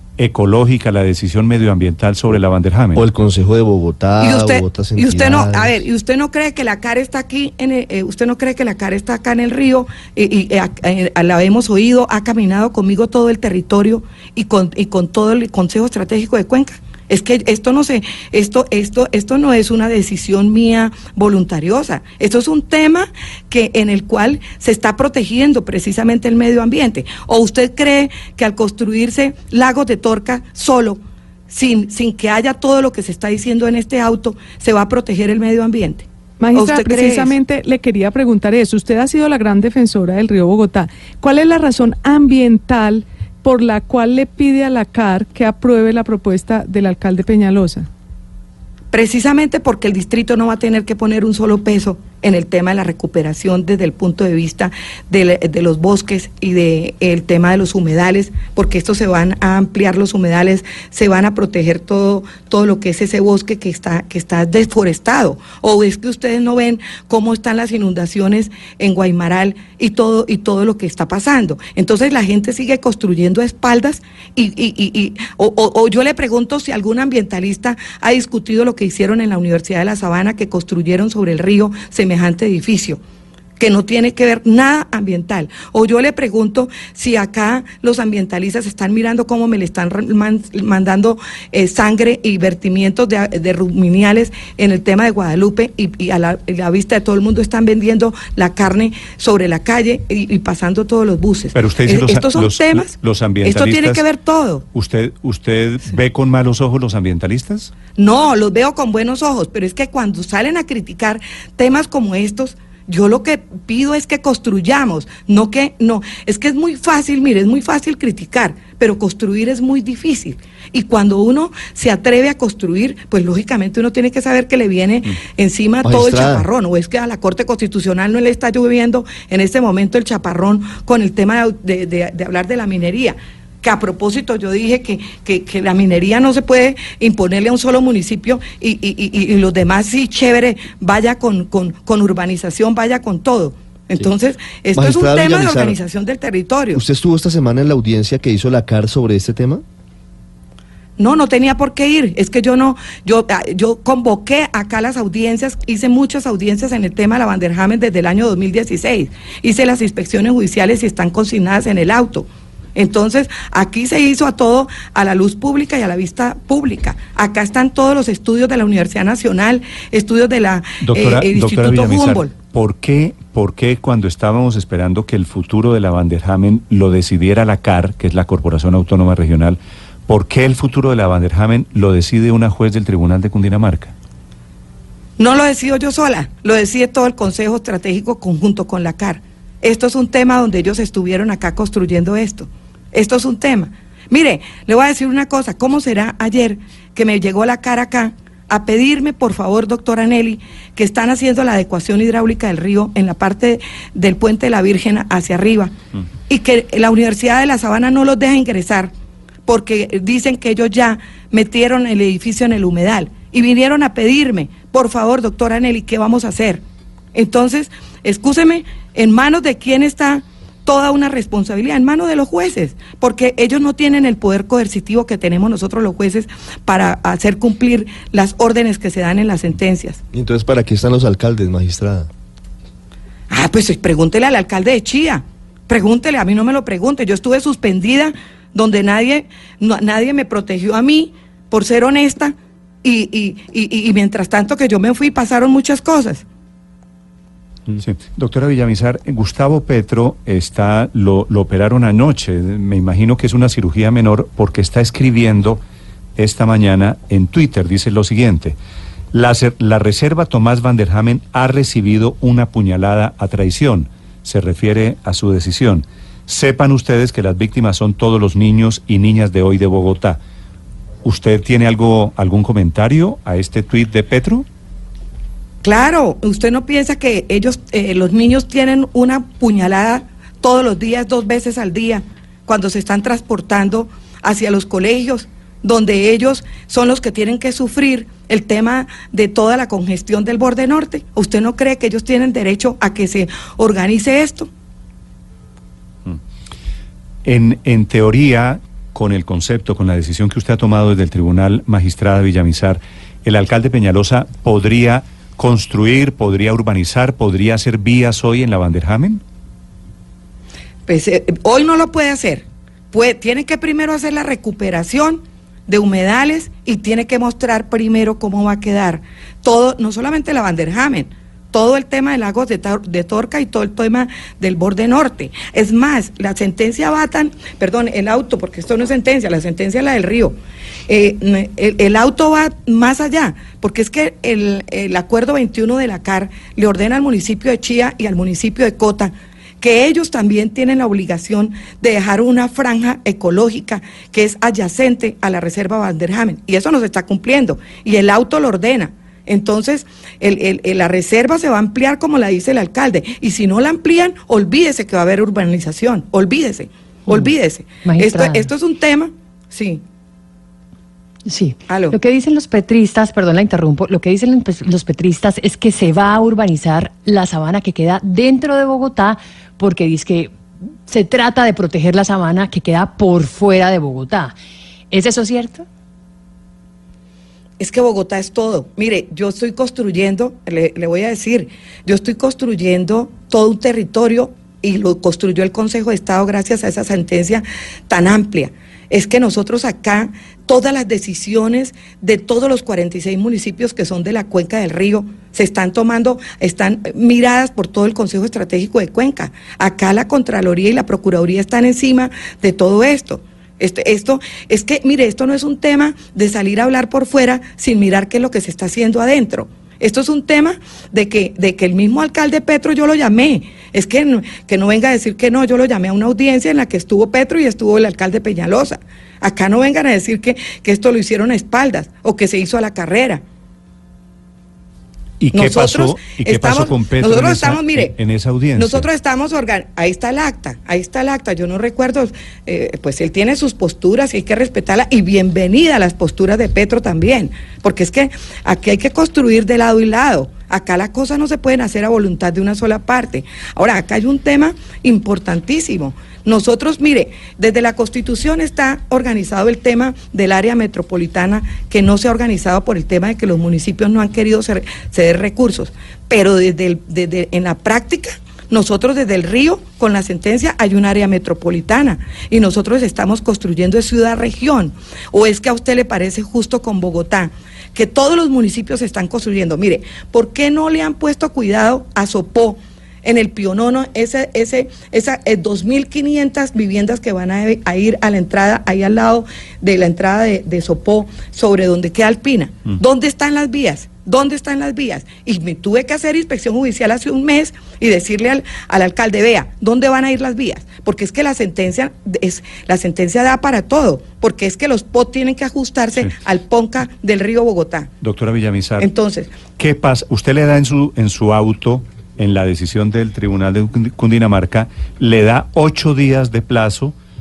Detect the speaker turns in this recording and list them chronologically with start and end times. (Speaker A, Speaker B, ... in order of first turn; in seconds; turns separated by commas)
Speaker A: 0.2-3.0, Speaker B: 2.9-5.8, Speaker C: 4.2-37.3, Speaker D: 36.4-47.9, Speaker C: 48.9-83.0, Speaker C: 83.6-104.6, Speaker A: 101.5-104.0, Speaker A: 104.7-107.7, Speaker C: 108.0-146.8, Speaker B: 125.8-126.5, Speaker B: 144.7-145.8, Speaker B: 146.7-149.6, Speaker C: 151.0-172.3, Speaker A: 170.8-183.9, Speaker C: 185.2-205.7, Speaker C: 206.3-208.9, Speaker C: 209.5-216.6, Speaker C: 217.1-230.0, Speaker B: 230.1-232.1, Speaker C: 233.3-246.2, Speaker A: 247.7-255.6, Speaker A: 256.2-258.6, Speaker A: 259.1-270.2, Speaker A: 271.0-274.4, Speaker C: 275.6-294.5, Speaker A: 297.2-309.2, Speaker C: 310.9-330.4, Speaker C: 330.9-359.8, Speaker E: 357.1-357.3, Speaker E: 357.8-358.5, Speaker E: 361.2-370.4, Speaker C: 361.7-361.9, Speaker E: 370.9-374.4, Speaker E: 374.9-375.6, Speaker C: 377.6-423.2, Speaker A: 425.2-428.9, Speaker C: 425.3-427.9, Speaker C: 428.6-497.9, Speaker A: 498.0-498.9, Speaker C: 498.8-499.3, Speaker A: 499.6-506.9